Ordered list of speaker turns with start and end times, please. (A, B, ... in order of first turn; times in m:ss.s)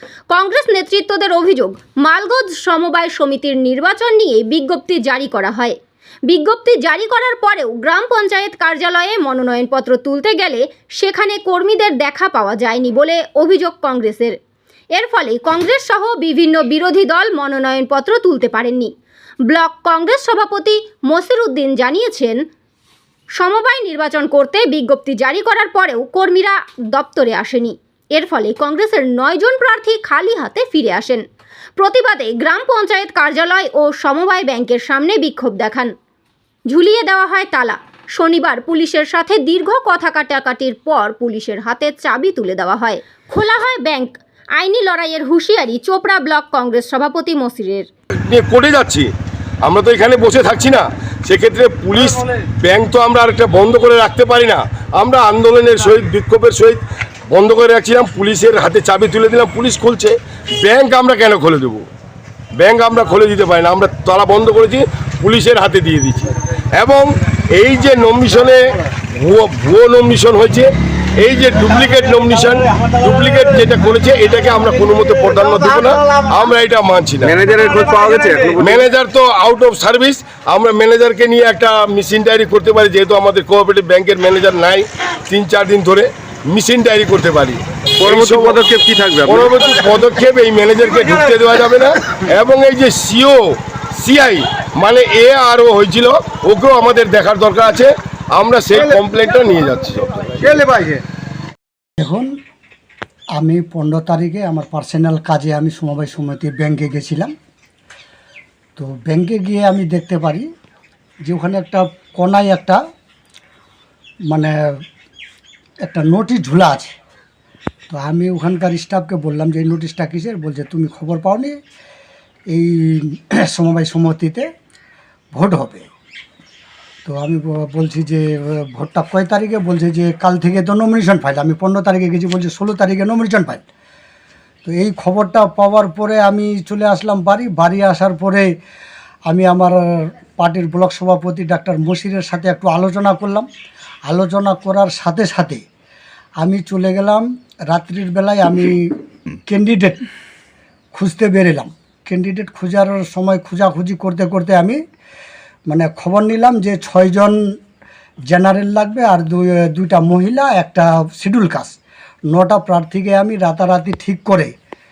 0:00.3-0:05.8 A
0:06.3-0:14.4 A
0:15.0-0:18.9 A
0:19.5-0:22.4 A
0:23.4-0:31.2 A
0:31.8-0:35.9 A
0:36.7-0:47.9 A
0:48.1-0:49.1 B
0:49.6-0:56.8 B
0:57.3-1:01.8 B
1:02.6-1:08.6 B
1:09.2-1:17.6 B
1:17.2-1:18.9 C
1:18.6-1:28.7 B
1:28.0-1:29.6 C
1:29.2-1:33.5 B
1:34.0-1:40.5 B
1:40.6-1:41.0 D
1:42.0-1:42.3 D
1:43.4-1:47.3 D
1:48.8-1:50.5 D
1:51.2-1:52.8 D
1:55.8-1:56.9 D
1:57.9-2:01.6 D
2:02.5-2:04.5 D
2:05.4-2:05.9 D
2:07.0-2:13.6 D
2:14.6-2:18.5 D
2:19.3-2:23.5 D
2:24.1-2:25.6 D
2:26.4-2:29.0 D
2:29.5-2:30.0 D
2:30.9-2:34.8 D
2:35.7-2:37.4 D
2:38.3-2:41.8 D
2:42.3-2:44.5 D